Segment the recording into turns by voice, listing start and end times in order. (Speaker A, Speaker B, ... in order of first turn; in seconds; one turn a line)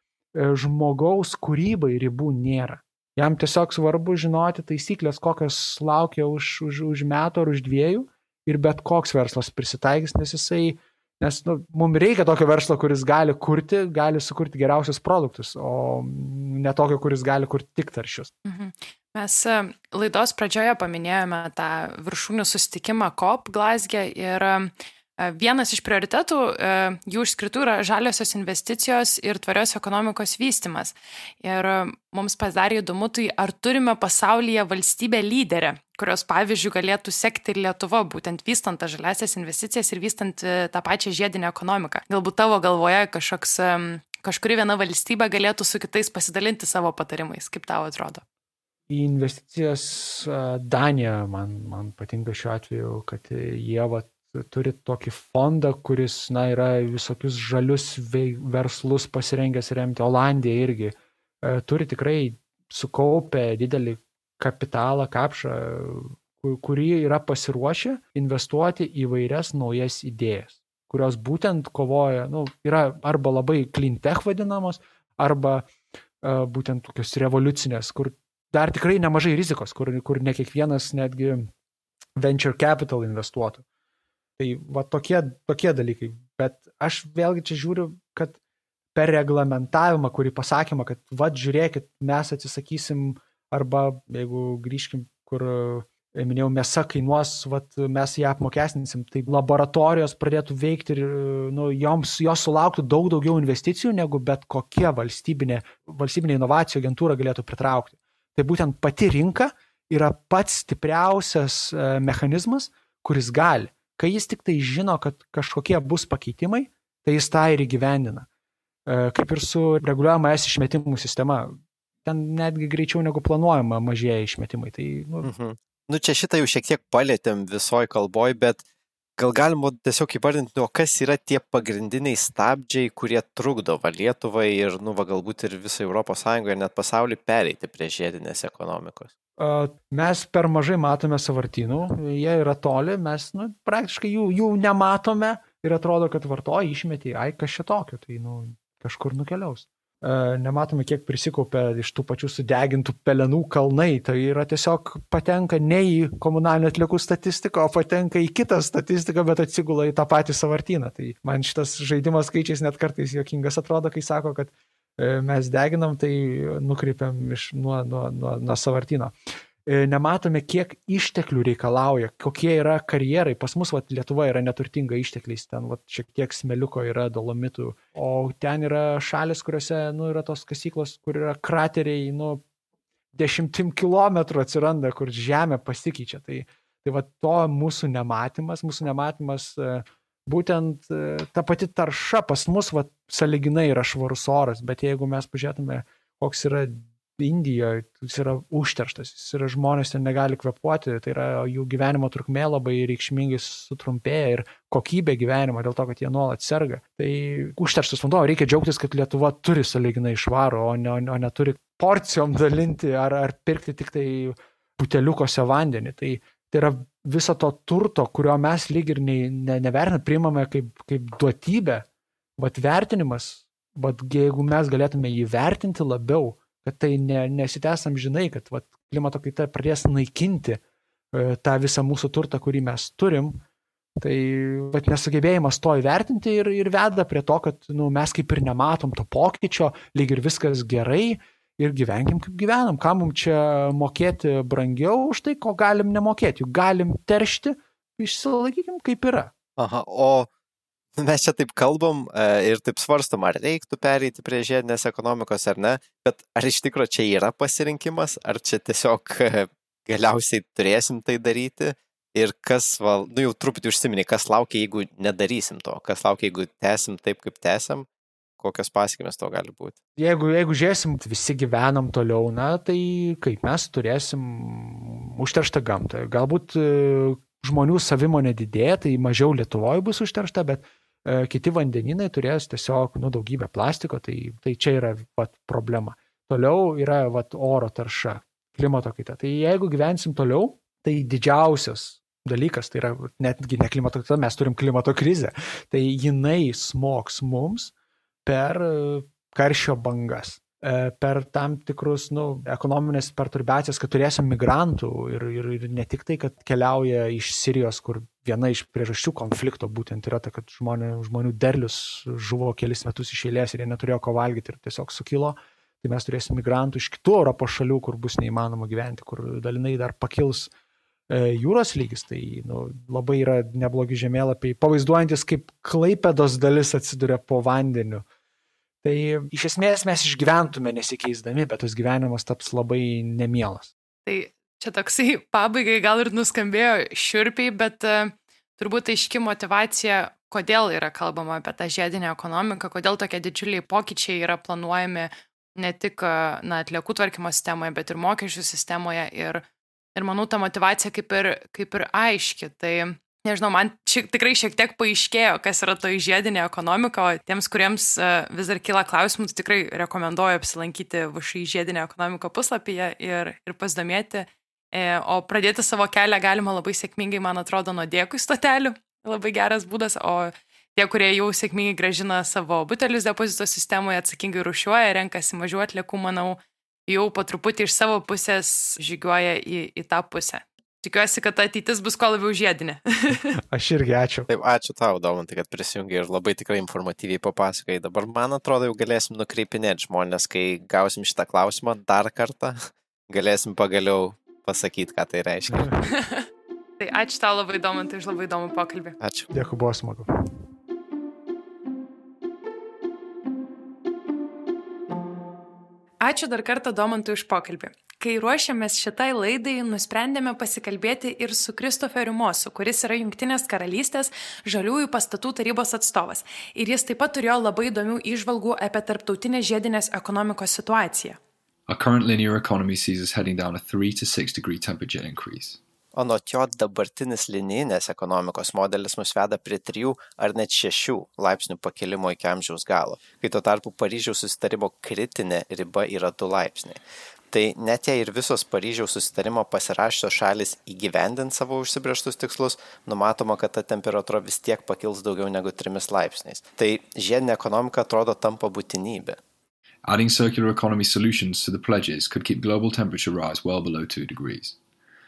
Speaker A: 0.3-18.3
Speaker B: 18.4-48.2
Speaker A: 48.9-75.7
Speaker A: 76.2-81.5
Speaker A: 82.2-83.6
Speaker A: 84.4-88.4
Speaker A: 89.0-118.3
Speaker A: 118.9-125.3
Speaker C: 125.2-128.6
Speaker C: 129.2-139.1
Speaker A: 139.4-169.1
Speaker A: 169.7-182.4
Speaker A: 183.1-221.9
Speaker A: 222.4-230.6
Speaker A: 231.1-233.4
Speaker A: 234.0-249.3
Speaker C: 249.6-250.3
Speaker C: 251.0-267.9
Speaker C: 268.4-269.8
Speaker A: 270.0-297.7
Speaker A: 298.2-320.5
Speaker A: 321.1-328.1
Speaker A: 328.8-333.7
Speaker B: 334.1-349.4
Speaker B: 349.9-383.4
Speaker A: 383.5-384.3
Speaker C: 384.3-395.8
Speaker B: 395.9-396.3
Speaker B: 396.8-399.0
Speaker C: 399.0-399.3
Speaker A: 399.3-400.1
Speaker B: 406.0-421.2
Speaker D: 421.7-425.6
Speaker C: 425.9-436.8
Speaker C: 437.3-449.2
Speaker D: 449.9-454.6